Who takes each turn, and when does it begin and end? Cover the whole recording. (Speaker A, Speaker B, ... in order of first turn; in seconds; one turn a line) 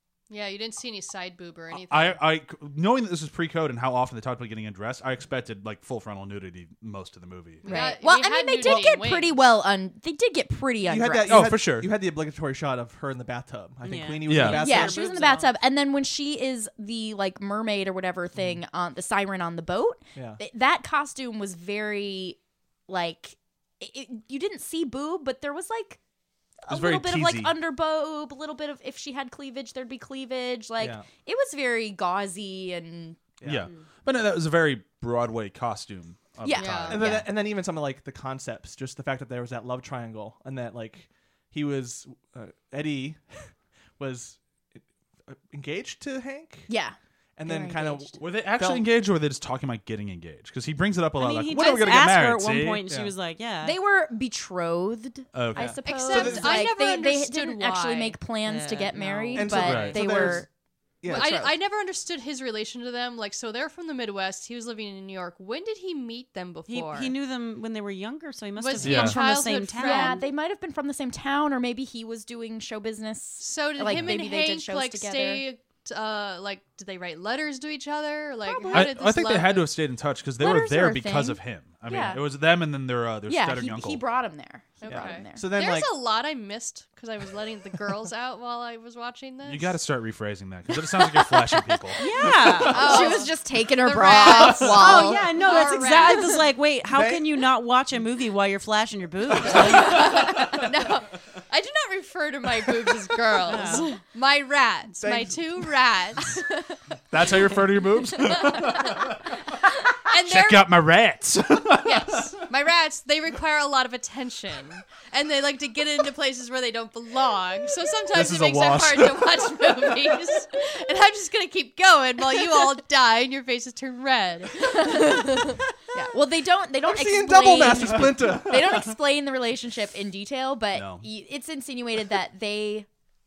Speaker A: 0.3-2.2
Speaker B: 1.7-7.7
Speaker A: 7.6-9.3
Speaker C: 7.6-11.5
Speaker D: 10.8-15.2
Speaker B: 11.3-11.9
Speaker E: 13.8-15.5
Speaker B: 14.2-14.7
Speaker C: 14.6-26.0
Speaker D: 20.1-20.4
Speaker C: 26.6-33.3
Speaker B: 26.7-27.6
Speaker D: 30.8-31.1
Speaker D: 33.4-33.7
Speaker B: 33.4-37.1
Speaker C: 36.4-37.3
Speaker A: 36.5-37.0
Speaker D: 36.9-46.7
Speaker C: 46.7-48.2
Speaker D: 47.4-48.8
Speaker B: 48.2-52.8
Speaker E: 51.2-53.8
Speaker D: 52.9-53.1
Speaker C: 53.6-60.5
Speaker B: 55.3-55.8
Speaker D: 55.6-56.7
Speaker A: 55.8-58.2
Speaker E: 58.4-59.9
Speaker D: 59.3-60.5
Speaker B: 59.6-60.0
Speaker D: 61.0-61.3
Speaker C: 61.1-61.5
Speaker A: 61.1-67.1
Speaker E: 66.7-70.2
Speaker A: 68.6-70.2
Speaker B: 68.8-69.2
Speaker C: 69.8-75.4
Speaker A: 73.4-79.7
Speaker B: 73.9-74.2
Speaker C: 78.4-78.9
Speaker B: 78.7-84.0
Speaker C: 80.4-82.2
Speaker C: 83.3-85.4
Speaker A: 84.8-89.8
Speaker D: 84.8-85.9
Speaker B: 89.4-92.9
Speaker E: 92.0-93.2
Speaker C: 92.0-95.3
Speaker A: 92.6-96.4
Speaker E: 94.5-100.0
Speaker D: 96.9-97.4
Speaker A: 99.5-106.8
Speaker B: 99.7-100.5
Speaker E: 103.5-103.9
Speaker D: 105.0-105.6
Speaker B: 107.1-112.4
Speaker A: 108.2-110.7
Speaker A: 111.8-125.6
Speaker B: 118.1-119.9
Speaker C: 124.6-132.9
Speaker D: 126.8-128.9
Speaker B: 130.7-131.1